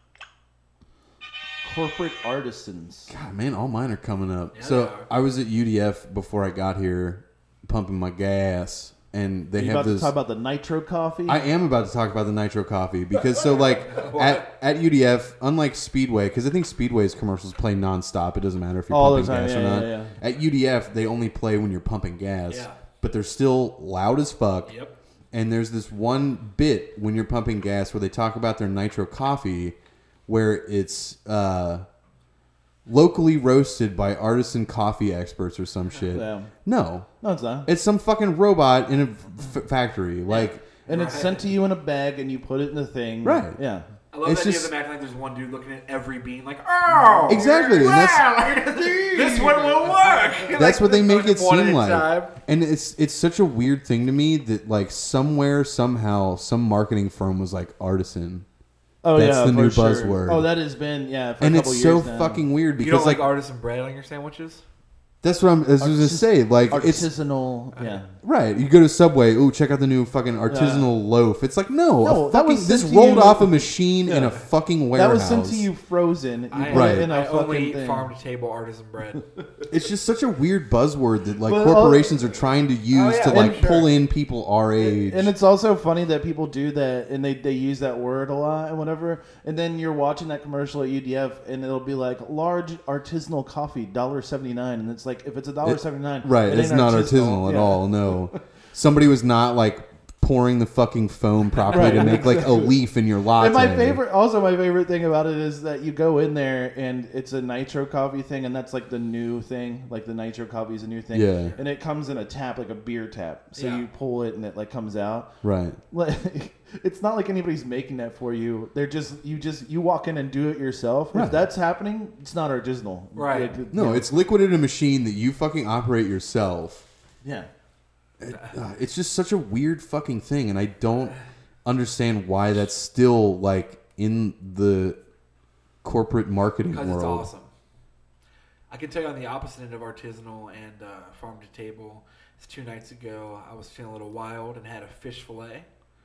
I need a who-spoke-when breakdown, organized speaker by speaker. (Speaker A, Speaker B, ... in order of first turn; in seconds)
Speaker A: 1.6-3.1, 9.5-11.4, 18.9-20.1, 36.1-36.5, 37.2-37.7, 40.9-43.8, 47.0-50.5, 59.0-62.4, 65.8-68.1, 70.5-70.9, 72.0-74.3, 74.9-78.1, 81.4-82.3, 83.3-83.8, 84.8-98.4, 101.7-102.8, 103.3-115.3, 115.9-124.1, 127.2-127.5
Speaker B: 3.1-10.1, 11.3-24.7, 25.3-31.9, 32.9-37.1, 37.6-40.6, 43.2-43.6, 44.2-44.7, 47.3-48.6, 50.6-58.5, 59.1-60.5, 61.4-63.3, 65.2-67.1, 68.2-75.7, 76.7-77.1, 79.7-85.3, 95.6-104.0, 111.1-111.5, 115.4-115.8, 121.1-121.4, 123.7-126.8, 128.2-135.0, 135.8-137.3
Speaker C: 4.5-5.1, 13.3-14.5, 22.5-22.8, 24.7-24.9, 40.3-41.4, 44.1-52.3, 62.8-64.6, 67.8-68.0, 76.5-79.2, 82.9-83.9, 101.5-102.3, 113.5-113.8, 123.1-123.5, 136.7-137.5, 138.7-145.7